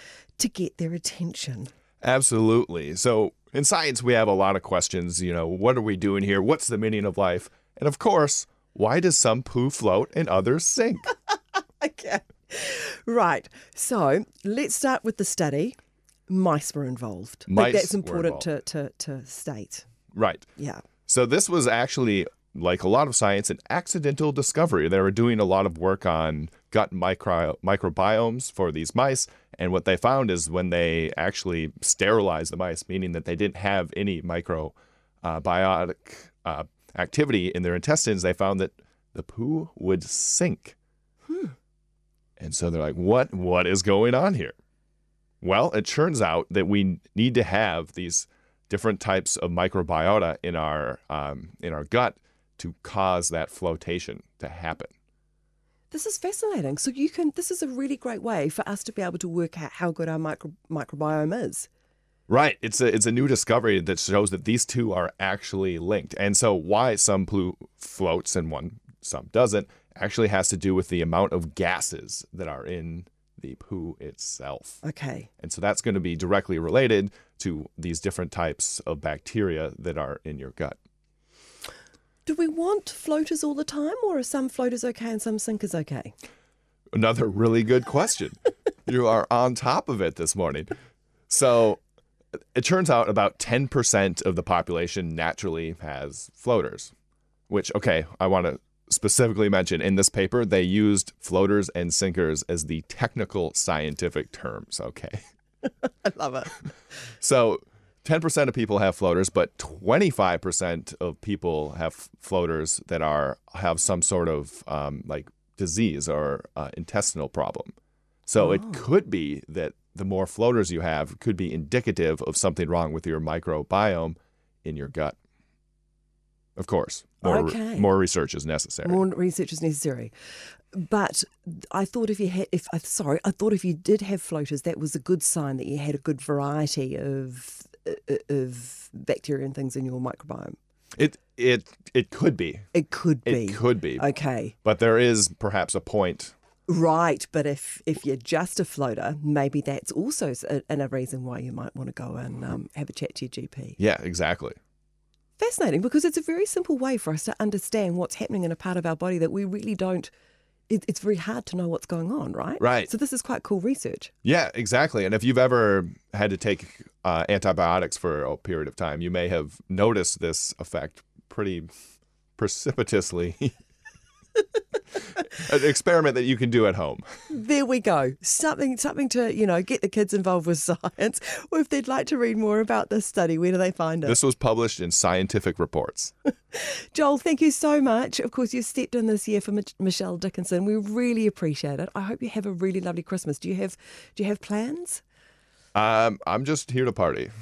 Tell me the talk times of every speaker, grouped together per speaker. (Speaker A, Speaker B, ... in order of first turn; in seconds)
Speaker A: 0.4-1.7, 11.8-15.8, 16.3-19.9, 20.6-20.8, 55.9-61.7, 74.8-75.3, 82.3-86.1, 105.8-106.7, 118.4-118.8, 127.2-127.9, 128.8-130.1, 130.7-140.6, 142.7-144.5, 146.7-153.8, 155.4-160.1, 160.7-164.1, 177.3-184.2, 186.5-195.0
Speaker B: 2.0-11.1, 17.5-18.5, 20.1-20.5, 21.1-40.8, 42.4-44.5, 45.4-54.9, 62.3-74.8, 75.4-80.8, 87.0-90.7, 91.3-91.8, 92.5-96.9, 97.5-105.2, 107.2-117.7, 118.3-125.2, 126.6-129.0, 141.0-142.7, 143.3-144.1, 144.6-146.3, 153.8-154.6, 162.6-162.9, 164.2-171.7, 172.4-173.5, 175.3-177.0, 184.1-186.1, 195.8-197.3